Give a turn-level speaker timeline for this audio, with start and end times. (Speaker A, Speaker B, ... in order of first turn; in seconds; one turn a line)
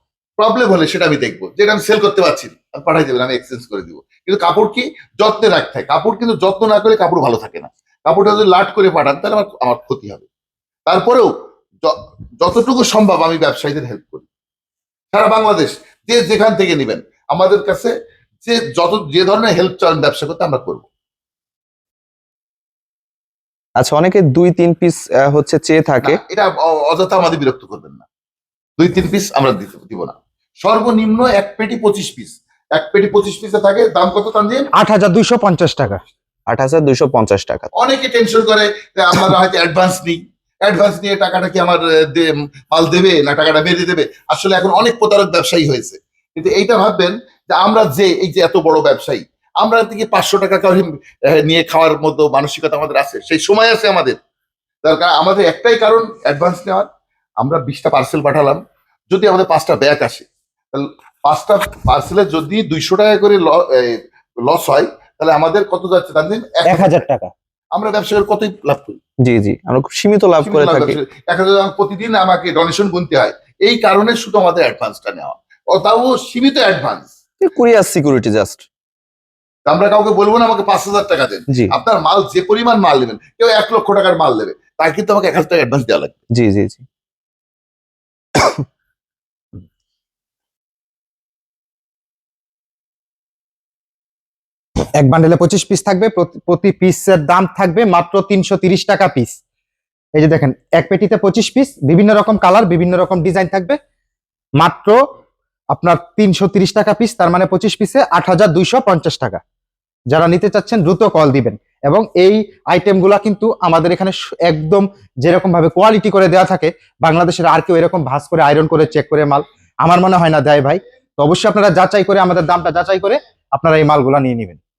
Speaker A: 0.4-10.2
Speaker A: 10.9-11.3
Speaker A: 11.8-14.2
Speaker A: 15.1-17.9
Speaker A: 18.4-20.9
Speaker B: 23.8-26.2
Speaker A: 26.0-28.1
Speaker A: 28.8-34.7
Speaker C: 34.8-36.0
Speaker B: 36.5-37.7
Speaker A: 37.7-54.2
Speaker A: 54.8-56.9
Speaker A: 57.4-67.0
Speaker C: 66.7-67.3
Speaker A: 67.7-69.0
Speaker B: 69.2-71.0
Speaker A: 70.4-77.0
Speaker B: 77.4-78.6
Speaker A: 79.7-86.2
Speaker B: 86.4-86.8
Speaker C: 95.0-99.4
Speaker C: 100.2-103.8
Speaker C: 104.6-105.0
Speaker C: 105.7-109.4
Speaker C: 110.1-124.6